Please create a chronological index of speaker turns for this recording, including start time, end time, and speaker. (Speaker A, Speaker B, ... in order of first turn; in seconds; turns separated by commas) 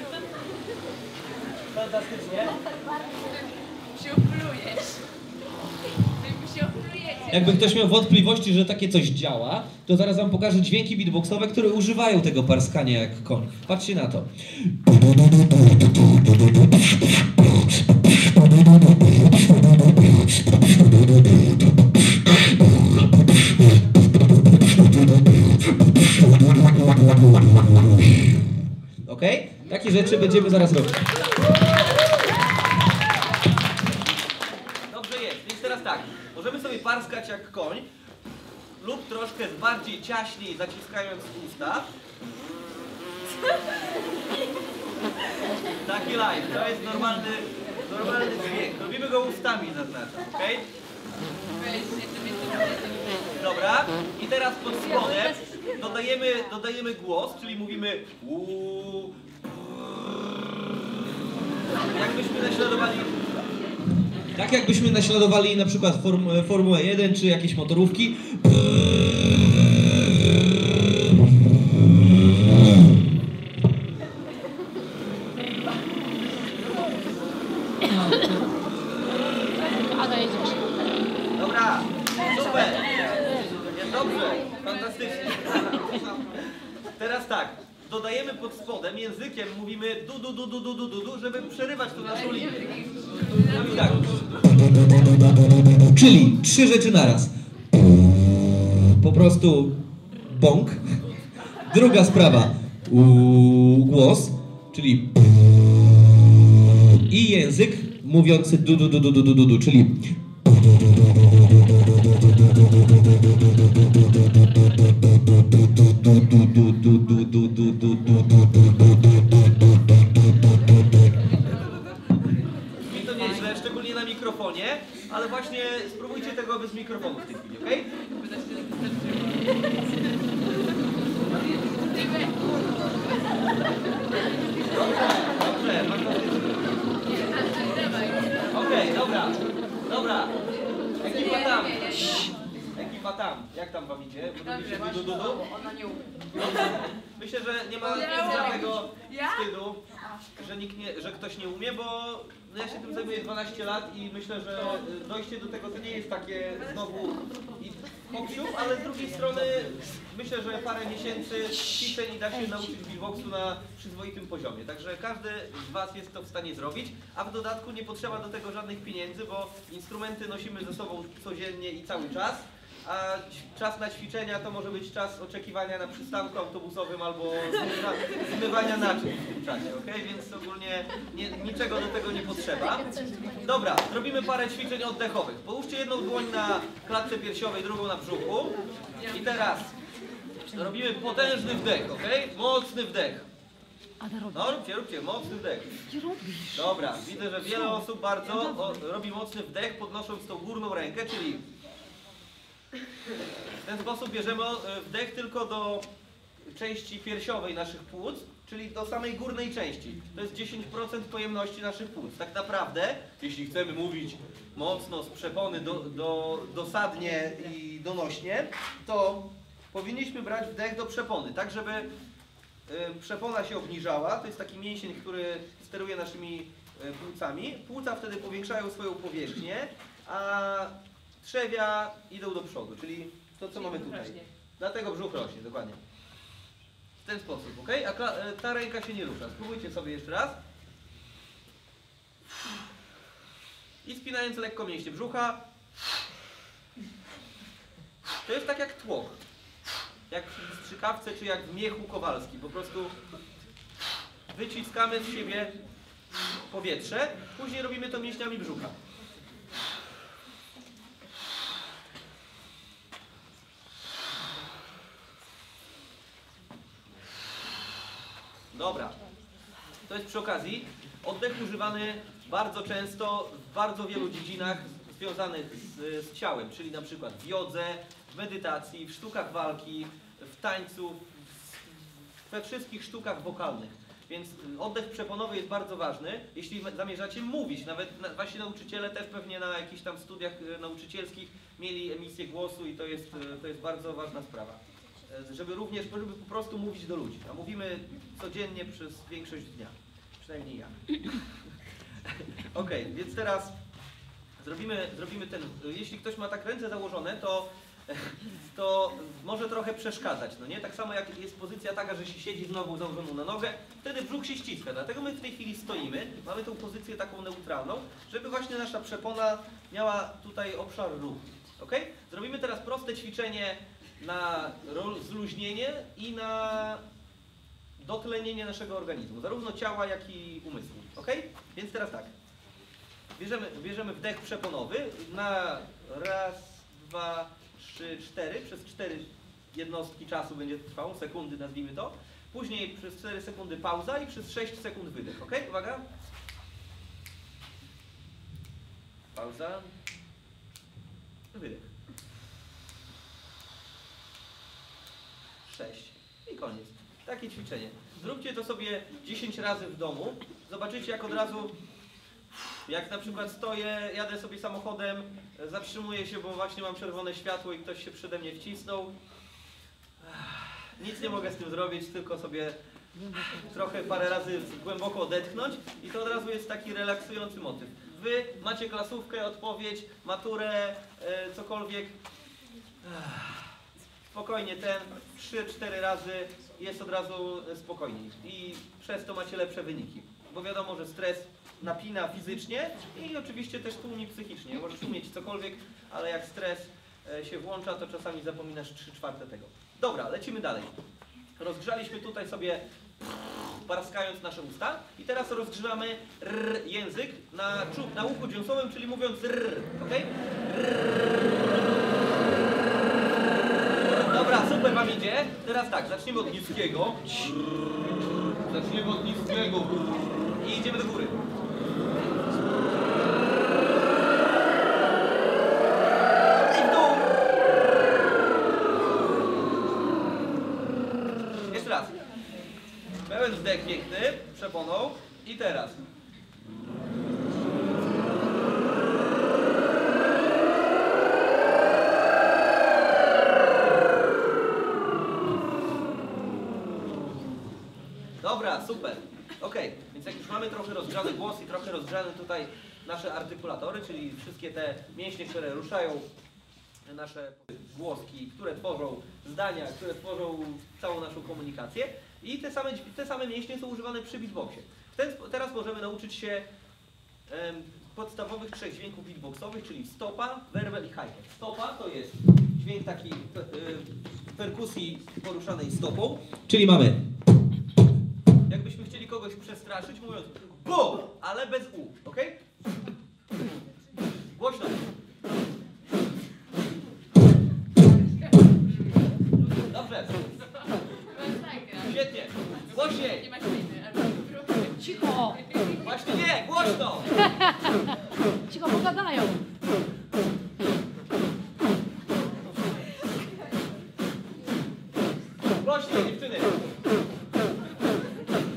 Speaker A: 1.6-2.6, Speaker B: 3.3-5.0, Speaker B: 6.0-7.3, Speaker A: 7.3-14.7, Speaker A: 29.0-31.1, Speaker A: 34.9-37.9, Speaker A: 38.8-41.9, Speaker A: 45.8-50.7, Speaker B: 51.5-53.2, Speaker A: 53.2-59.2, Speaker A: 61.7-63.2, Speaker A: 64.3-70.0, Speaker C: 79.8-80.7, Speaker A: 81.3-94.7, Speaker B: 92.6-93.5, Speaker A: 95.8-97.3, Speaker A: 98.4-101.0, Speaker A: 101.6-105.2, Speaker A: 106.7-110.1, Speaker A: 116.0-118.5, Speaker B: 121.3-121.8, Speaker A: 122.7-128.0, Speaker B: 128.3-129.9, Speaker A: 131.2-132.2, Speaker A: 134.6-136.7, Speaker B: 137.2-138.4, Speaker A: 138.4-140.3, Speaker A: 141.0-142.2, Speaker A: 142.7-145.5, Speaker B: 145.5-146.1, Speaker A: 146.3-149.8, Speaker A: 150.3-189.7, Speaker A: 190.5-193.2, Speaker C: 194.0-194.3, Speaker A: 194.3-195.8, Speaker C: 195.9-196.6, Speaker A: 196.5-201.4, Speaker A: 203.6-205.9, Speaker A: 206.5-221.9, Speaker A: 222.7-235.8, Speaker A: 237.0-240.4, Speaker A: 243.8-245.4, Speaker A: 248.2-249.2, Speaker A: 250.1-252.9, Speaker A: 254.3-255.5, Speaker A: 256.5-258.8, Speaker A: 268.5-269.0, Speaker A: 269.9-281.0, Speaker A: 282.3-301.2, Speaker A: 302.0-303.5, Speaker A: 304.4-326.8, Speaker A: 327.8-332.1, Speaker A: 333.2-345.8, Speaker A: 349.1-349.7, Speaker A: 351.3-351.7, Speaker A: 355.4-361.6, Speaker A: 362.6-368.9, Speaker A: 370.0-372.6, Speaker A: 373.2-382.0, Speaker A: 382.8-383.5, Speaker A: 384.1-400.7, Speaker A: 401.4-402.6, Speaker A: 403.6-410.1, Speaker A: 413.9-417.3, Speaker A: 418.4-421.2, Speaker A: 426.3-427.2, Speaker A: 431.5-431.9, Speaker A: 433.0-435.8, Speaker A: 448.2-456.1, Speaker A: 456.9-466.5, Speaker A: 467.3-477.0, Speaker A: 478.5-482.4, Speaker A: 484.3-484.8, Speaker A: 489.5-490.3, Speaker B: 491.1-491.8, Speaker A: 491.7-493.4, Speaker B: 493.3-495.6, Speaker C: 494.8-495.5, Speaker A: 495.7-497.3, Speaker C: 498.5-499.4, Speaker A: 505.6-506.6